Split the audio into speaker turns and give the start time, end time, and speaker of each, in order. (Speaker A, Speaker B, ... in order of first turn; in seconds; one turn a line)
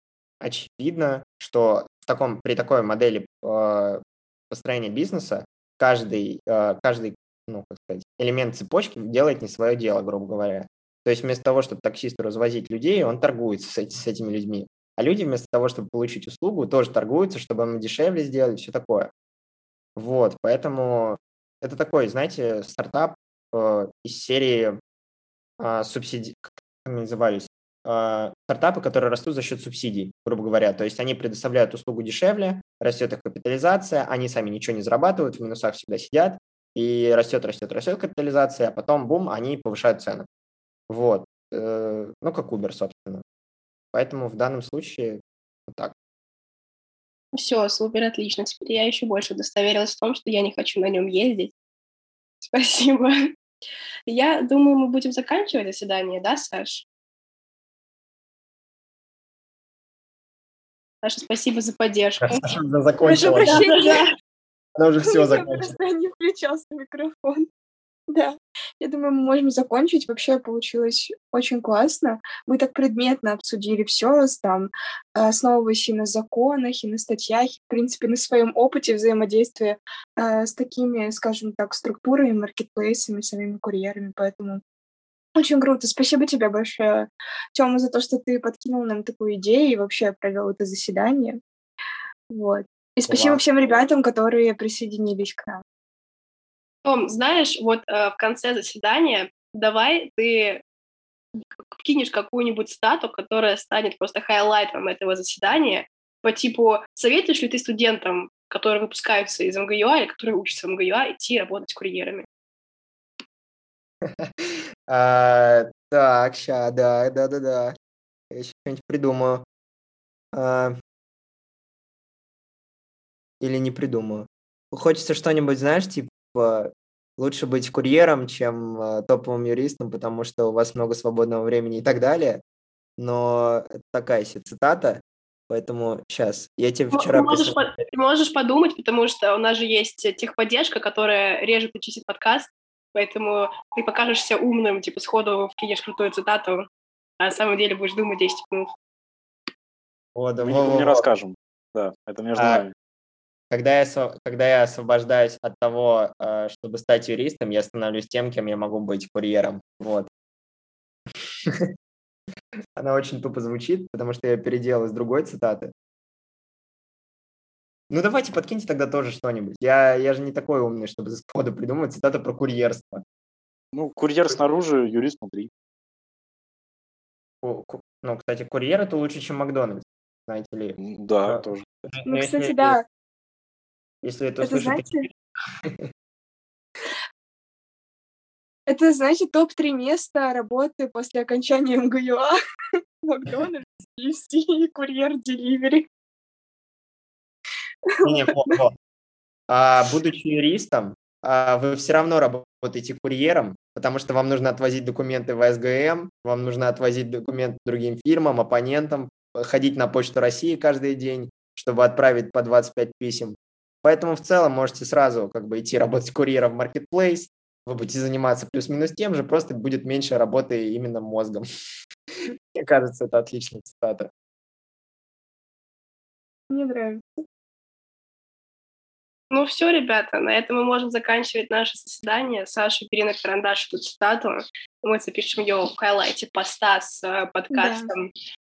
Speaker A: 0.4-19.1
Speaker A: 19.9-24.8
Speaker A: 25.6-40.3
Speaker A: 40.9-43.2
Speaker A: 43.9-45.9
Speaker B: 47.3-51.5
Speaker B: 52.4-53.3
Speaker B: 54.1-56.8
Speaker B: 61.0-62.5
Speaker A: 62.2-63.6
Speaker C: 63.0-64.0
Speaker B: 63.1-64.0
Speaker A: 64.8-65.7
Speaker C: 65.0-67.5
Speaker C: 68.1-84.6
Speaker C: 85.3-91.4
Speaker C: 92.3-95.6
Speaker A: 93.1-93.4
Speaker B: 96.8-100.6
Speaker B: 101.3-112.2
Speaker A: 114.0-117.7
Speaker A: 118.3-119.4
Speaker A: 120.3-120.7
Speaker A: 123.4-132.4
Speaker A: 133.0-137.8
Speaker B: 136.9-146.6
Speaker B: 147.2-148.7
Speaker A: 150.1-151.0
Speaker D: 150.4-152.7
Speaker A: 152.3-152.7
Speaker A: 153.5-160.1
Speaker A: 162.8-165.7
Speaker A: 167.9-173.0
Speaker D: 173.7-175.5
Speaker A: 177.4-182.8
Speaker D: 180.8-181.6
Speaker C: 182.1-182.8
Speaker A: 184.0-185.1
Speaker C: 184.4-185.1
Speaker C: 188.7-192.3
Speaker C: 193.0-195.8
Speaker C: 198.0-198.6
Speaker A: 198.0-198.7
Speaker A: 199.5-221.4
Speaker A: 222.5-224.1
Speaker C: 226.5-227.2
Speaker B: 229.3-238.1
Speaker C: 237.5-237.9